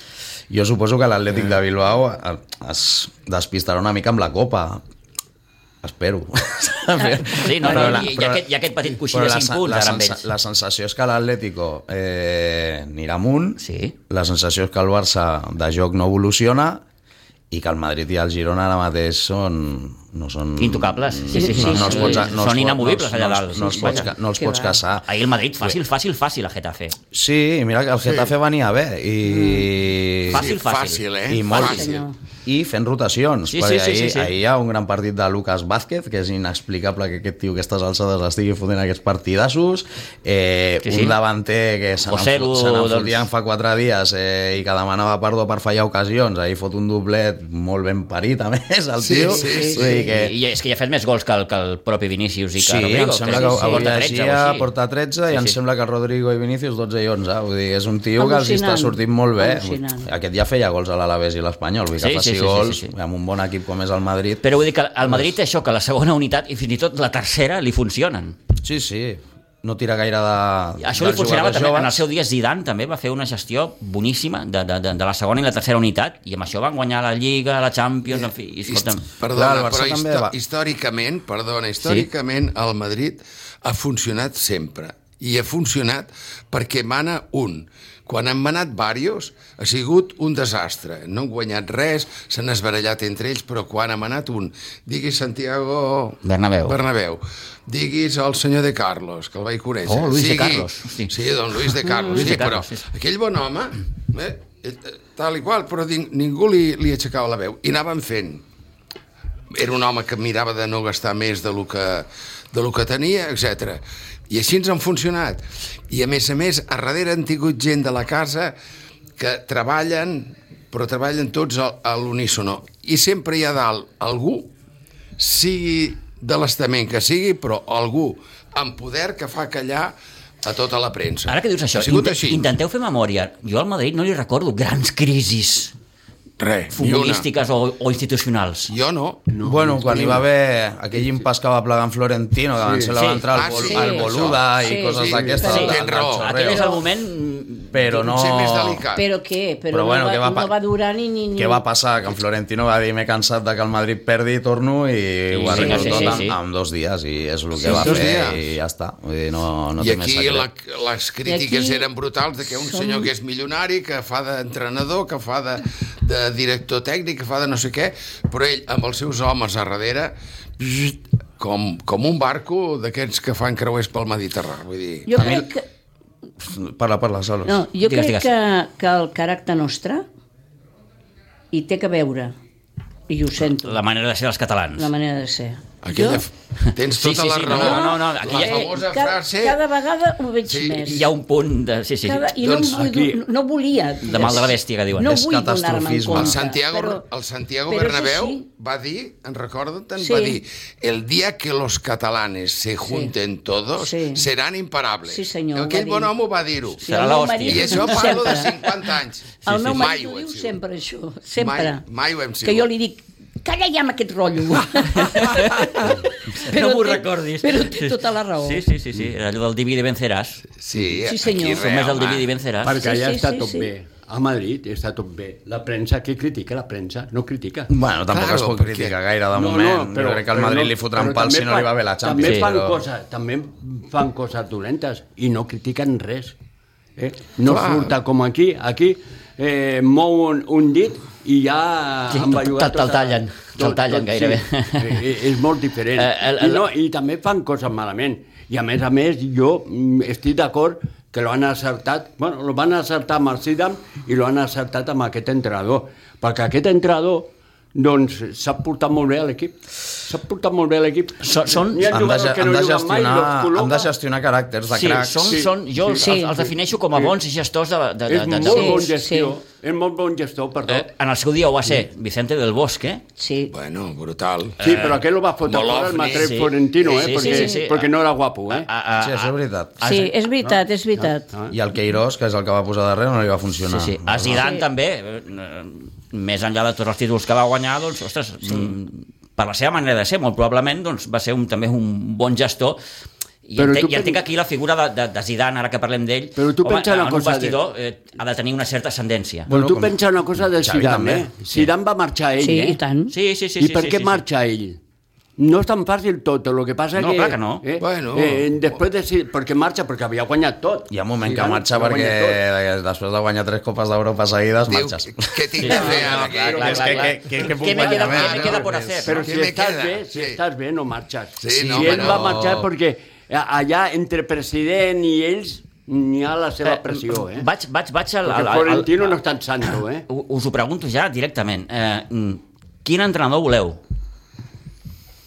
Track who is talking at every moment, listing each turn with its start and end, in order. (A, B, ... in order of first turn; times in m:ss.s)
0:00.5-0:04.8 A
0:05.8-0:08.5 A
0:07.3-0:10.2 B
0:09.1-0:16.8 A
0:13.6-0:13.9 B
0:17.5-0:25.0 A
0:20.6-0:24.1 B
0:21.3-0:22.2 C
0:23.8-0:24.8 C
0:25.0-0:27.0 B
0:27.1-0:30.5 A
0:28.0-0:28.3 D
0:29.2-0:29.6 C
0:30.3-0:31.0 B
0:30.3-0:32.0 D
0:31.3-0:31.9 A
0:31.5-0:32.1 C
0:32.4-0:50.3 A
0:33.5-0:34.3 B
0:40.8-0:41.2 B
0:42.0-0:43.2 B
0:49.0-0:50.0 D
0:49.2-0:50.1 C
0:50.1-0:54.7 B
0:52.6-1:04.4 A
0:53.3-0:53.9 C
0:58.2-1:00.1 C
1:02.0-1:02.9 B
1:04.4-1:08.4 B
1:05.0-1:05.3 A
1:08.6-1:12.0 A
1:10.8-1:19.1 B
1:18.7-1:48.4 D
1:19.3-1:20.3 A
1:21.8-1:22.1 B
1:36.2-1:36.8 B
1:39.8-1:42.8 B
1:41.9-1:42.2 C
1:49.5-1:58.5 D
1:59.2-2:04.5 D
2:05.2-2:12.5 D
2:11.3-2:15.7 B
2:16.4-2:17.2 D
2:16.7-2:18.7 B
2:18.7-2:19.2 D
2:19.3-2:20.2 E
2:19.4-2:26.7 A
2:22.6-2:22.9 E
2:22.9-2:23.3 B
2:23.3-2:26.3 D
2:23.7-2:25.8 C
2:25.1-2:25.5 E
2:25.4-2:28.0 B
2:26.5-2:26.8 C
2:27.7-2:28.8 A
2:28.0-2:29.0 D
2:28.9-2:31.6 C
2:29.7-2:30.5 A
2:31.4-2:40.5 A
2:35.3-2:36.4 B
2:35.5-2:36.2 C
2:37.6-2:38.4 D
2:37.6-2:37.9 C
2:39.8-2:55.4 D
2:41.2-2:41.9 C
2:42.6-2:43.1 C
2:55.0-2:55.6 C
2:55.2-2:55.4 A
2:56.4-2:57.6 A
2:57.4-3:00.0 C
2:57.8-2:58.3 B
3:01.5-3:02.3 C
3:03.1-3:03.8 C
3:03.5-3:04.9 B
3:04.8-3:06.2 C
3:05.8-3:09.6 D
3:06.8-3:08.7 B
3:07.5-3:11.1 C
3:10.4-3:10.9 D
3:10.8-3:12.3 B
3:12.0-3:17.0 C
3:12.3-3:12.8 D
3:12.7-3:13.2 E
3:14.0-3:15.2 B
3:15.0-3:16.4 A
3:16.1-3:30.6 D
3:17.7-3:18.4 C
3:20.0-3:20.4 C
3:22.8-3:23.1 C
3:23.8-3:24.3 C
3:25.0-3:26.1 C
3:26.8-3:28.6 C
3:26.8-3:28.2 B
3:29.4-3:31.8 C
3:29.4-3:29.8 B
3:31.4-3:32.7 D
3:32.4-3:38.6 C
3:35.0-3:40.5 B
3:40.6-3:42.3 D
3:41.0-3:41.6 C
3:41.4-3:42.8 B
3:42.6-3:47.7 E
3:42.8-3:43.7 C
3:47.7-3:52.8 A
3:48.1-3:48.9 D
3:49.3-3:56.4 E
3:52.2-3:52.5 B
3:57.0-4:23.9 E
3:57.4-3:57.9 D
4:02.1-4:05.1 B
4:05.9-4:06.6 B
4:21.2-4:21.9 B
4:21.9-4:25.4 A
4:24.7-4:28.9 B
4:25.2-4:27.1 E
4:26.0-4:26.4 C
4:28.1-4:30.9 E
4:28.5-4:29.3 C
4:30.7-4:33.0 B
4:33.2-4:33.5 C
4:33.5-4:34.6 D
4:34.6-4:35.0 B
4:34.6-4:38.7 E
4:35.4-4:36.3 D
4:36.1-4:37.9 B
4:37.1-4:37.6 C
4:38.5-4:40.1 B
4:39.0-4:39.8 A
4:39.8-4:41.3 C
4:40.4-4:41.5 E
4:41.5-4:44.5 A
4:43.7-4:52.8 B
4:44.3-4:44.6 C
4:53.4-4:59.5 B
4:53.6-4:54.2 E
4:56.4-4:57.6 E
4:59.5-5:00.0 A
4:59.5-5:02.8 E
5:00.6-5:01.3 A
5:02.4-5:03.1 C
5:03.1-5:04.2 B
5:03.6-5:04.8 E
5:05.4-5:12.4 E
5:07.0-5:07.6 B
5:07.8-5:08.6 D
5:10.9-5:19.0 A
5:14.7-5:16.7 D
5:15.6-5:19.2 B
5:15.6-5:27.5 E
5:19.1-5:20.4 D
5:21.4-5:22.4 D
5:21.5-5:22.7 A
5:26.6-5:29.2 B
5:28.2-5:30.0 E
5:29.7-5:33.8 B